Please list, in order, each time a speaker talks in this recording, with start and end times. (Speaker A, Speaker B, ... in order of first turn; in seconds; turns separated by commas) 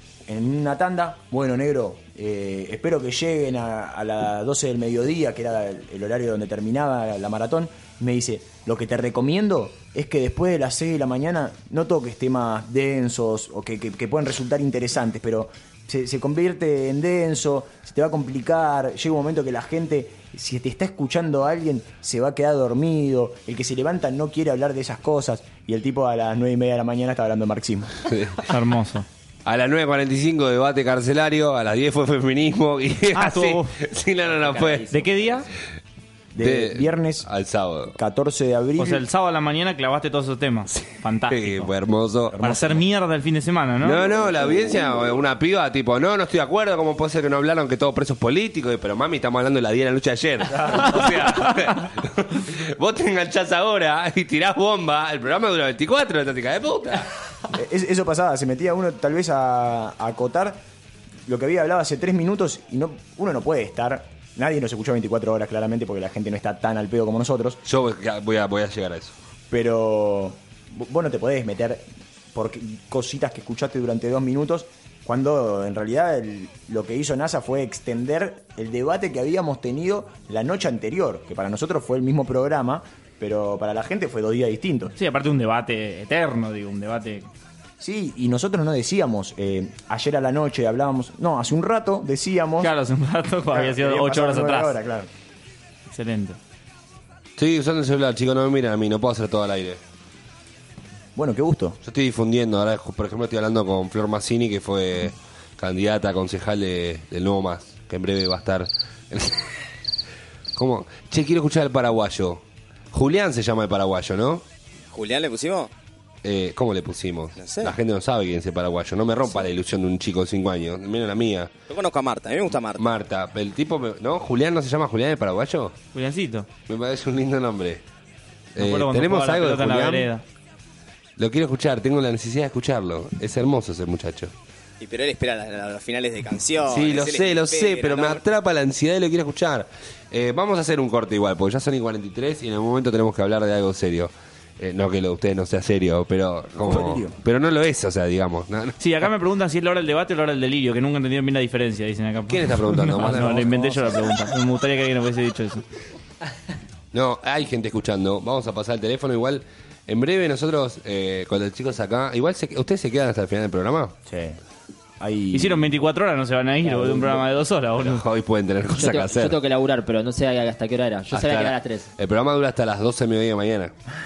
Speaker A: 0.3-28.1, Speaker B: 28.1-28.5, Speaker C: 28.5-29.1, Speaker B: 29.4-34.9, Speaker C: 33.1-33.8, Speaker D: 34.2-35.5, Speaker C: 34.9-35.5, Speaker A: 36.3-37.3, Speaker B: 36.4-38.0, Speaker A: 38.0-39.0, Speaker C: 38.8-41.7, Speaker B: 40.7-42.4, Speaker A: 42.3-42.9, Speaker C: 42.4-44.0, Speaker B: 43.8-57.1, Speaker A: 50.5-51.2, Speaker A: 57.5-60.6, Speaker A: 61.3-67.6, Speaker B: 67.7-69.2, Speaker A: 69.5-85.0, Speaker C: 85.0-87.3, Speaker A: 87.8-92.7, Speaker C: 92.6-94.7, Speaker A: 93.5-95.1, Speaker C: 95.9-96.4, Speaker B: 97.4-99.8, Speaker A: 101.2-101.8, Speaker B: 101.8-109.6, Speaker B: 110.6-114.4, Speaker E: 114.9-115.7, Speaker B: 116.2-121.5, Speaker E: 117.4-117.8, Speaker E: 121.7-122.8, Speaker B: 122.8-125.8, Speaker C: 125.9-126.5, Speaker B: 126.7-127.8, Speaker B: 128.5-130.1, Speaker C: 128.6-130.2, Speaker B: 131.2-134.3, Speaker E: 134.8-138.2, Speaker B: 136.7-148.8, Speaker A: 146.6-147.2, Speaker C: 148.8-155.6, Speaker B: 152.3-153.7, Speaker A: 153.3-153.9, Speaker B: 156.9-163.9, Speaker A: 164.1-164.4, Speaker A: 165.0-165.7, Speaker C: 165.3-168.1, Speaker A: 166.7-167.2, Speaker B: 167.8-169.4, Speaker D: 168.8-171.9, Speaker B: 171.1-173.7